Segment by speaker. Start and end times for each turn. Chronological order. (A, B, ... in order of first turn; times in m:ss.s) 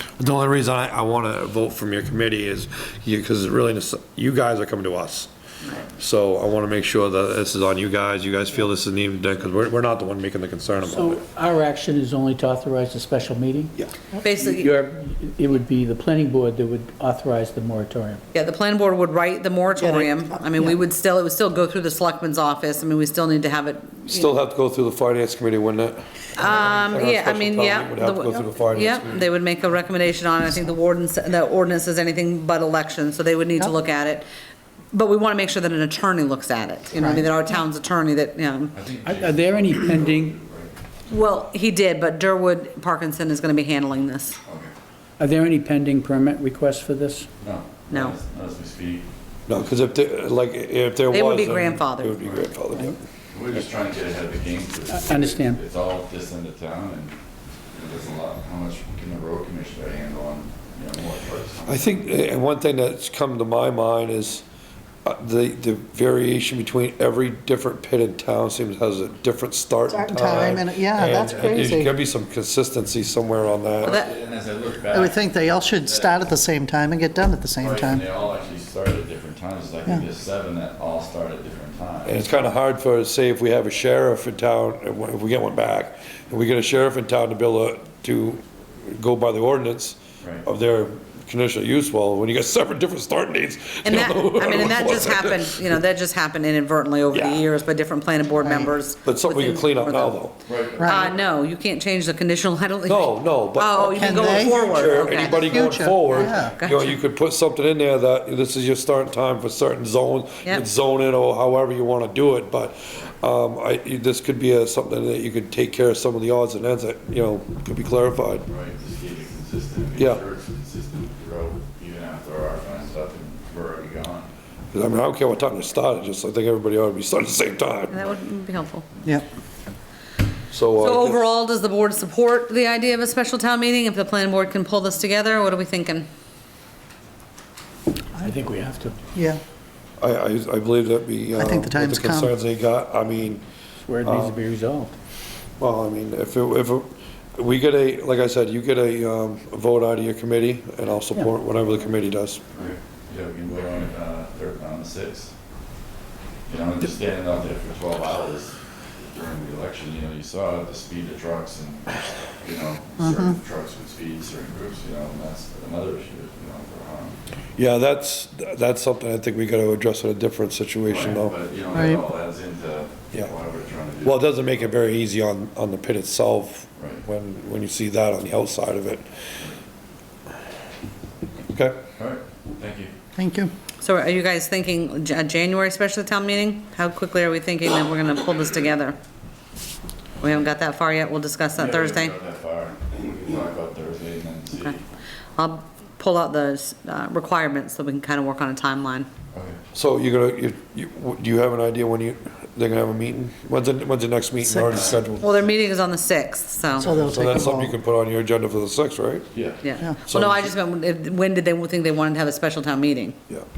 0:00.2-0:05.3 A
0:05.9-0:11.2 A
0:10.8-0:13.8 B
0:14.2-0:14.7 C
0:14.3-0:18.2 B
0:18.3-0:24.3 C
0:19.9-0:20.7 D
0:24.1-0:29.3 A
0:26.4-0:34.3 C
0:34.9-0:38.8 C
0:37.0-0:37.4 D
0:38.7-0:40.7 E
0:39.0-0:40.4 B
0:41.1-0:44.4 C
0:44.4-0:44.7 E
0:45.2-0:47.3 B
0:47.4-0:49.6 E
0:49.5-0:53.0 A
0:51.1-0:52.4 C
0:53.3-0:57.2 E
0:54.9-0:55.6 B
0:57.7-1:02.0 E
1:01.6-1:04.4 A
1:05.0-1:14.0 A
1:09.9-1:11.9 D
1:13.8-1:16.3 E
1:14.9-1:18.0 D
1:17.6-1:22.2 E
1:22.0-1:35.8 A
1:33.8-1:40.2 C
1:37.1-1:37.5 A
1:38.4-1:38.7 D
1:39.0-1:40.4 A
1:40.5-1:41.2 E
1:40.8-1:41.1 D
1:40.8-1:46.9 C
1:42.9-1:58.4 A
1:44.0-1:46.5 D
1:58.4-2:04.3 E
2:00.0-2:00.2 A
2:04.7-2:08.0 A
2:07.9-2:08.8 C
2:10.5-2:11.2 A
2:10.8-2:16.1 C
2:18.1-2:19.0 B
2:19.1-2:19.4 D
2:20.0-2:23.4 A
2:21.3-2:22.3 D
2:23.8-2:24.9 B
2:24.0-2:24.4 A
2:25.6-2:32.4 A
2:32.5-2:35.3 E
2:36.4-2:47.2 E
2:43.0-2:43.3 D
2:47.6-2:51.3 A
2:50.8-2:54.8 E
2:51.7-2:52.0 D
2:54.0-2:59.1 A
2:56.8-2:57.0 E
3:01.5-3:01.8 A
3:02.0-3:02.9 E
3:03.2-3:03.5 D
3:03.8-3:09.0 C
3:10.2-3:12.1 C
3:11.6-3:14.8 E
3:15.4-3:19.1 C
3:19.3-3:19.6 E
3:19.7-3:25.4 A
3:24.6-3:25.0 E
3:24.7-3:24.9 D
3:25.2-3:26.9 C
3:26.8-3:27.7 D
3:26.8-3:29.3 A
3:29.3-3:29.6 E
3:29.6-3:33.2 C
3:30.1-3:30.5 A